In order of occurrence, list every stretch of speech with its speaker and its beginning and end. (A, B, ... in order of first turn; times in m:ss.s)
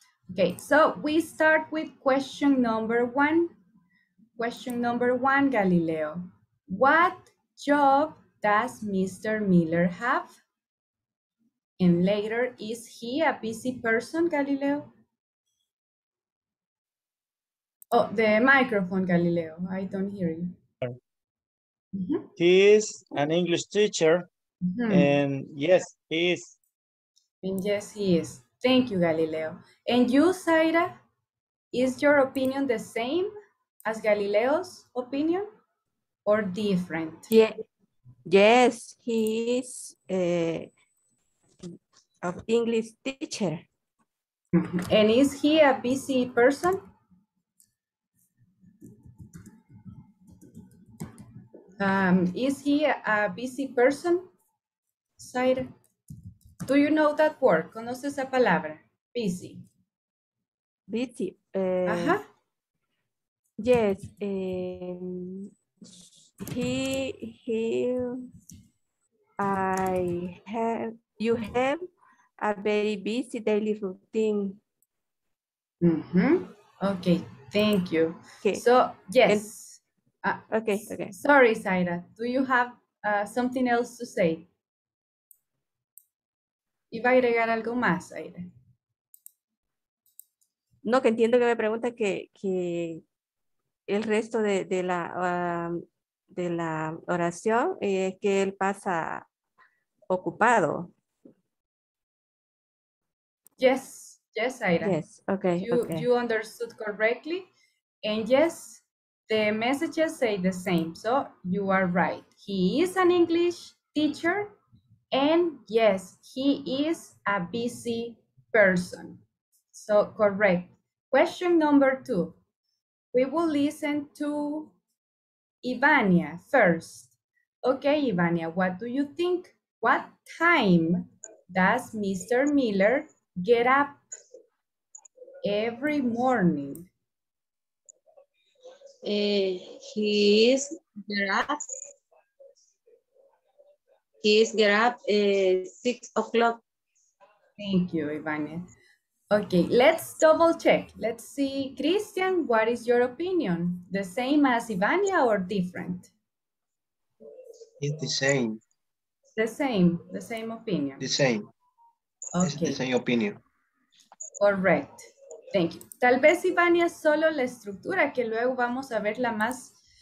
0:00.3-0:03.5 A
0:04.4-0:10.4 A
0:11.8-0:14.9 A
0:17.9-0:20.6 A
0:21.9-0:22.3 A
0:22.4-0:24.3 B
0:24.6-0:25.1 A
0:24.9-0:26.6 B
0:27.4-0:31.0 A
0:31.7-0:33.3 A
0:33.8-0:35.5 A
0:36.3-0:37.3 A
0:37.3-0:37.6 C
0:38.3-0:40.7 C
0:41.6-0:43.6 C
0:44.5-0:46.8 A
0:51.8-0:54.3 A
0:55.2-0:55.7 A
0:56.7-0:59.7 A
1:00.9-1:02.2 C
1:01.9-1:02.2 A
1:03.6-1:05.5 C
1:06.4-1:08.3 C
1:09.4-1:11.8 C
1:12.4-1:14.6 C
1:15.8-1:24.5 A
1:20.5-1:21.1 C
1:26.9-1:28.5 A
1:30.8-1:33.0 C
1:33.9-1:39.3 C
1:40.1-1:40.9 C
1:43.6-1:45.0 A
1:44.8-1:46.1 C
1:45.6-1:47.5 A
1:48.0-1:54.6 A
1:55.1-1:59.2 A
1:59.7-2:02.4 A
2:03.1-2:04.8 A
2:05.6-2:14.0 A
2:15.4-2:16.9 A
2:19.0-2:21.6 D
2:24.2-2:26.6 D
2:27.6-2:28.7 A
2:29.3-2:36.1 A
2:37.8-2:38.6 E
2:39.4-2:41.0 A
2:41.0-2:41.5 E
2:42.3-2:42.8 A
2:42.4-2:43.4 E
2:44.4-2:49.8 A